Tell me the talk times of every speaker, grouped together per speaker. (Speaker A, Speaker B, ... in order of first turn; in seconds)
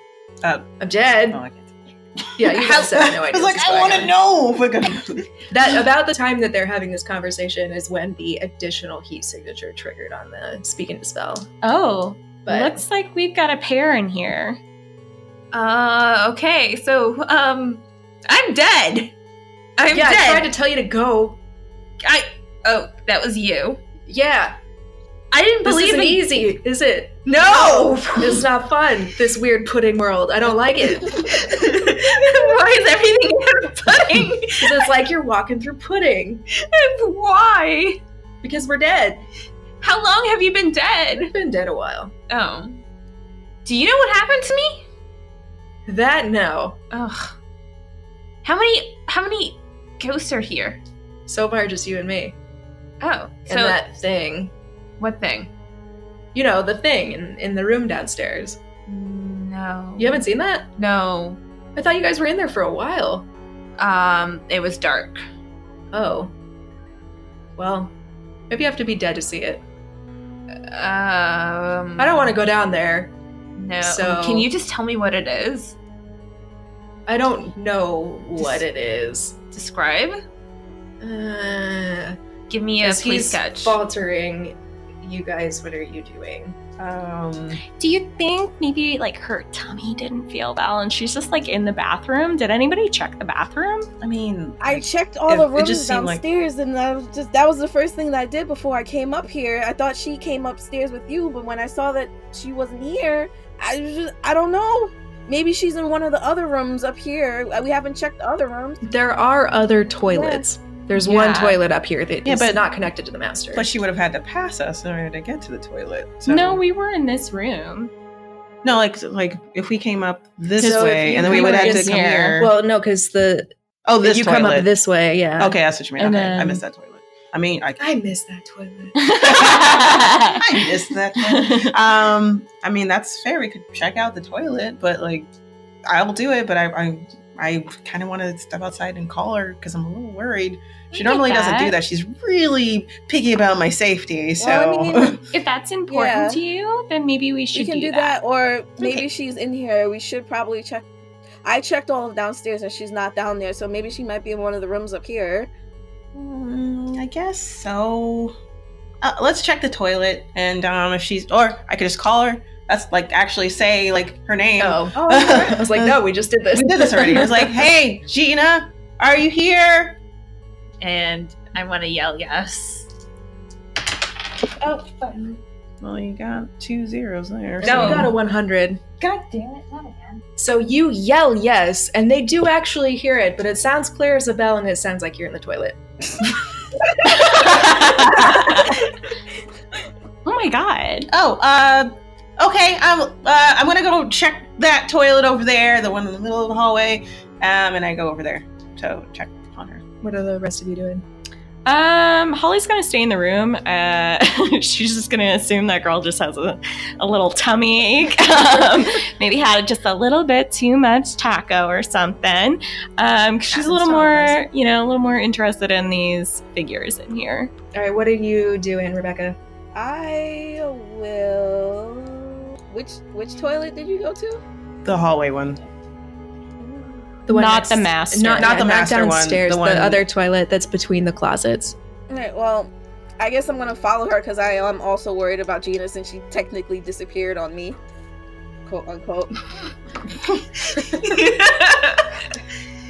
Speaker A: 0.4-0.7, 1.3-5.8, 86.8-87.6, 94.0-96.2, 112.2-112.6, 113.5-116.6, 118.6-122.5, 123.9-124.7, 125.4-127.8, 129.2-135.3, 135.9-145.3, 156.1-158.4, 159.0-166.0, 166.5-170.0, 175.8-178.1, 187.3-188.5, 191.1-199.8, 224.8-225.6, 228.4-230.1
Speaker B: 0.8-1.4, 2.4-4.2, 5.5-11.5, 12.5-12.8, 19.9-21.4, 24.1-24.6, 25.6-31.5, 34.6-36.4, 38.4-39.2, 41.2-42.1, 45.9-46.8, 51.3-52.4, 53.5-54.5, 56.3-58.6, 60.0-60.7, 61.8-63.3, 65.9-66.3, 67.6-67.9, 68.5-69.6, 72.0-73.1, 73.8-74.5, 77.1-79.4, 81.0-82.2, 82.8-86.6, 108.8-113.7, 120.6-123.5, 124.0-125.6, 127.8-129.2, 164.6-167.6, 177.6-178.8, 180.4-185.8, 200.0-201.1, 213.5-214.4, 217.7-219.4, 227.3-231.8
Speaker C: 11.6-14.6, 87.8-93.9, 111.0-111.6, 116.3-117.9, 120.6-122.4, 126.0-126.6, 129.0-130.6, 131.2-131.7, 140.9-141.8, 145.3-148.2, 187.4-188.8, 190.2-191.1, 201.7-217.5, 227.3-228.6
Speaker D: 15.5-19.1, 19.8-20.5, 22.0-23.8, 25.3-26.5, 27.3-28.5, 31.0-34.9, 36.5-38.0, 39.8-41.3, 42.3-42.8, 43.6-44.9, 46.9-47.4, 48.4-50.8, 53.0-53.8, 55.0-55.5, 58.9-60.2, 60.8-61.4, 63.8-65.2, 70.7-72.3, 73.6-75.8, 79.5-80.2, 82.5-83.8, 170.8-172.9, 174.6-175.4, 177.6-178.1, 179.0-180.2, 240.8-242.2
Speaker E: 94.6-108.8, 144.4-145.2, 145.9-146.4, 147.5-150.9, 151.4-155.5, 219.8-224.4, 226.6-227.2, 232.1-237.8, 238.7-239.4